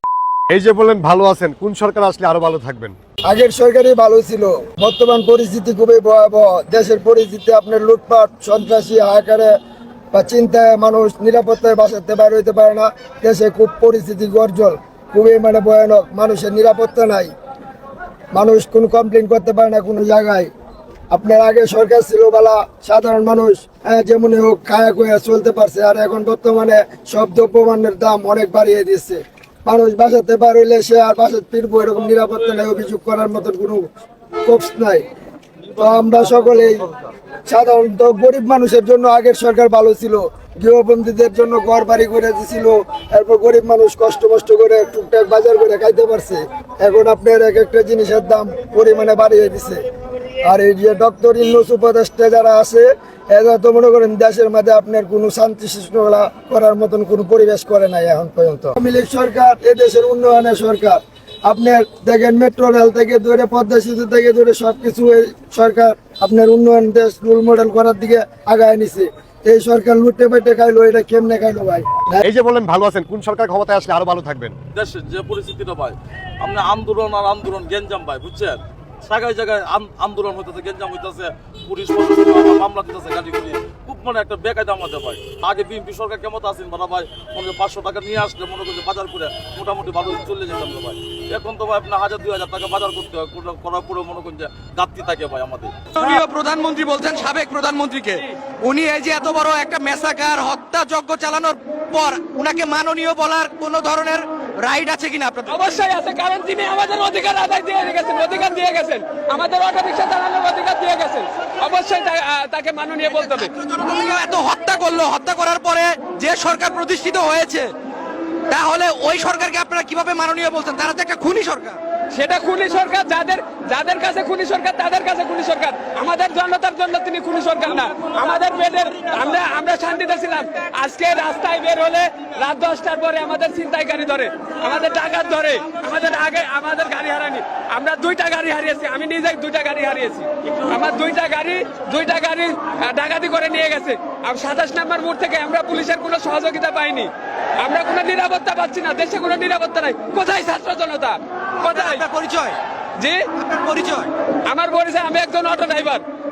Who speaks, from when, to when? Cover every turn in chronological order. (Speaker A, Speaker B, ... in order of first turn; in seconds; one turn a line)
Speaker A: 0.5-3.0
Speaker B: 3.3-9.5
Speaker B: 10.1-17.3
Speaker B: 18.3-20.5
Speaker B: 21.1-33.9
Speaker B: 34.4-35.0
Speaker B: 35.7-36.9
Speaker B: 37.5-49.8
Speaker B: 50.4-72.2
Speaker A: 72.2-74.5
Speaker C: 74.7-95.8
Speaker D: 95.8-105.7
Speaker E: 105.5-113.5
Speaker D: 113.2-117.7
Speaker D: 118.5-121.8
Speaker E: 122.1-152.0
Speaker D: 151.6-152.6
Speaker E: 153.0-153.2
Speaker D: 153.3-154.1
Speaker E: 154.5-156.0